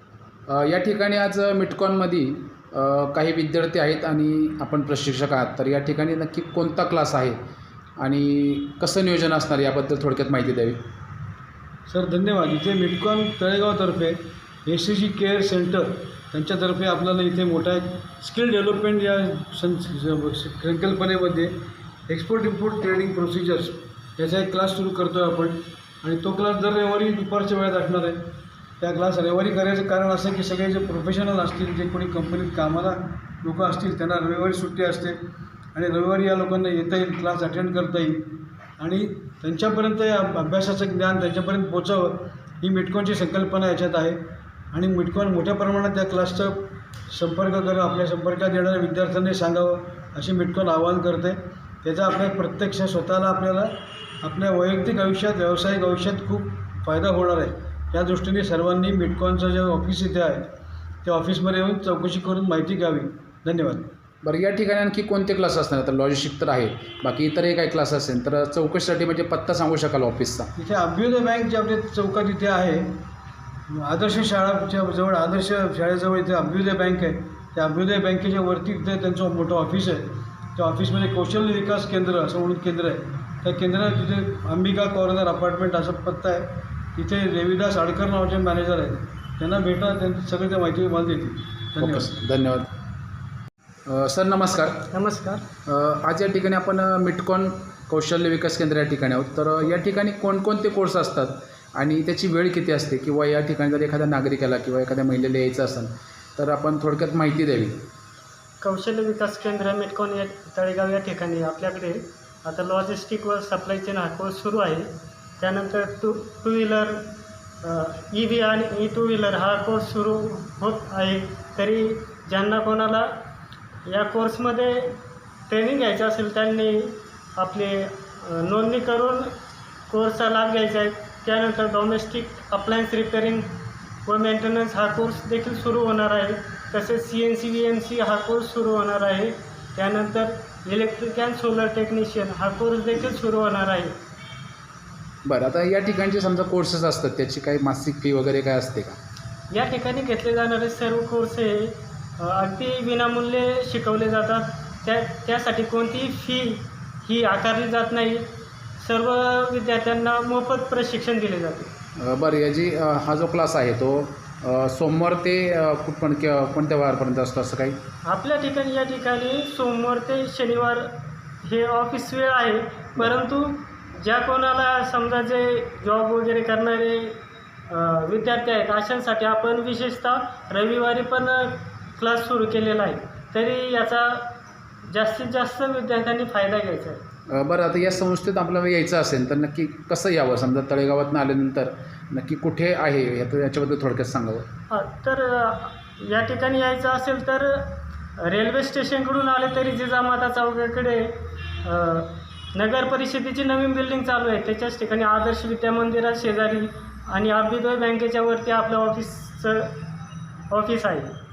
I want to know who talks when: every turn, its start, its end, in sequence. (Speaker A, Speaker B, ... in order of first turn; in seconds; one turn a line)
Speaker A: 0.5-7.4
Speaker A: 8.0-10.8
Speaker B: 11.9-21.6
Speaker B: 22.1-28.2
Speaker B: 28.8-35.2
Speaker B: 35.8-38.3
Speaker B: 38.8-44.2
Speaker B: 44.7-60.5
Speaker B: 61.0-63.9
Speaker A: 64.2-70.5
Speaker B: 70.6-73.0
Speaker B: 73.7-92.1
Speaker A: 91.8-92.7
Speaker A: 93.9-94.9
Speaker C: 94.9-95.4
Speaker A: 95.7-107.8
Speaker C: 108.6-123.2
Speaker C: 123.8-129.3
Speaker C: 129.9-133.5
Speaker C: 134.1-144.0
Speaker A: 145.2-149.0
Speaker C: 149.5-158.3
Speaker C: 158.8-161.7
Speaker A: 162.0-167.8
Speaker C: 168.1-184.3
Speaker C: 184.8-187.0
Speaker A: 187.3-194.5
Speaker C: 194.7-209.8
Speaker C: 210.5-211.1